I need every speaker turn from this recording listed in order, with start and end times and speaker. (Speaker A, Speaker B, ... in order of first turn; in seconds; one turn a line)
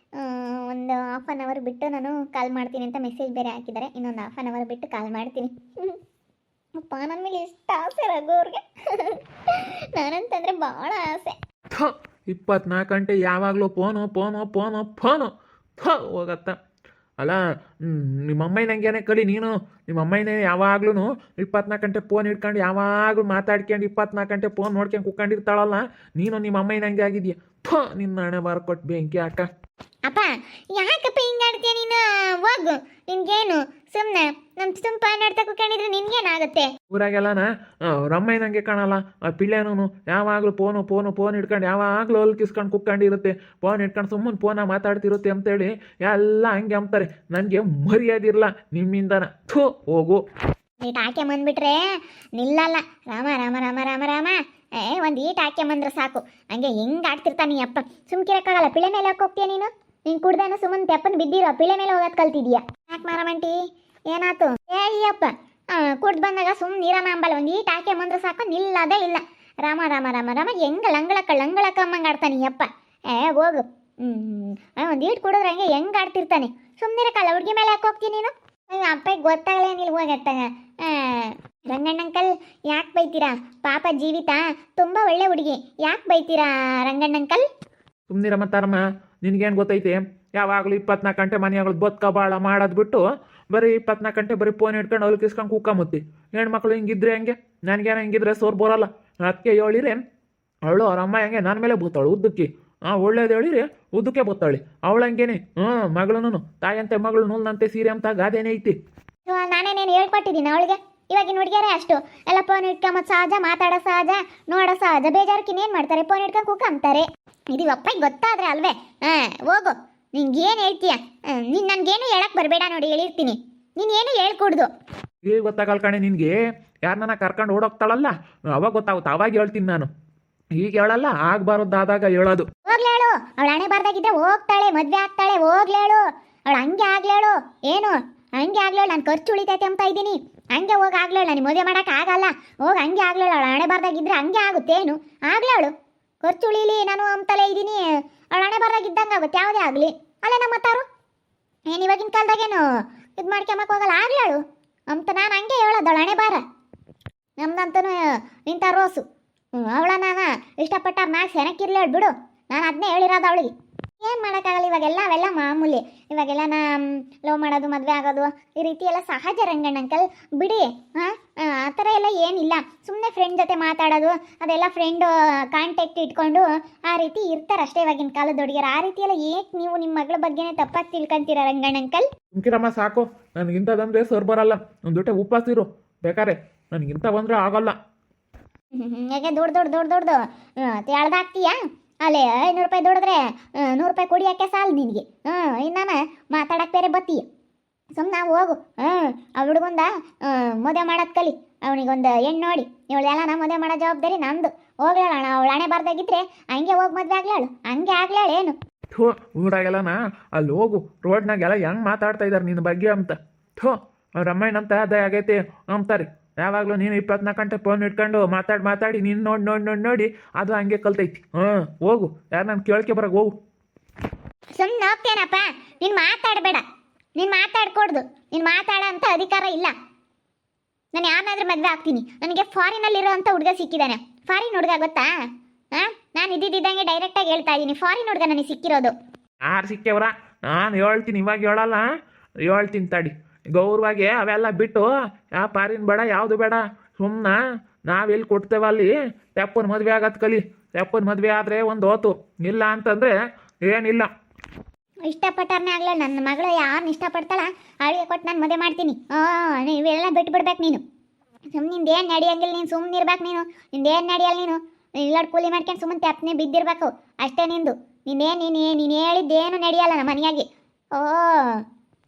Speaker A: 0.2-6.0
Speaker A: 6.8-11.4
Speaker B: 11.7-16.6
Speaker B: 17.2-29.5
Speaker A: 30.1-36.7
Speaker B: 36.9-50.2
Speaker A: 50.8-51.9
Speaker A: 52.4-63.6
Speaker A: 64.1-87.4
Speaker B: 88.1-100.0
Speaker B: 100.7-108.8
Speaker A: 109.3-124.7
Speaker B: 125.2-129.9
Speaker B: 130.6-132.5
Speaker A: 132.7-150.9
Speaker A: 151.7-152.7
Speaker A: 153.2-156.4
Speaker A: 157.4-182.1
Speaker B: 182.3-187.8
Speaker A: 188.7-197.2
Speaker A: 198.0-208.6
Speaker B: 208.9-223.3
Speaker A: 224.5-226.6
Speaker A: 227.2-229.7
Speaker A: 230.9-235.1
Speaker A: 235.7-238.9
Speaker B: 239.4-241.8
Speaker B: 242.4-253.1
Speaker B: 253.7-254.1
Speaker A: 255.1-260.8
Speaker A: 261.6-271.6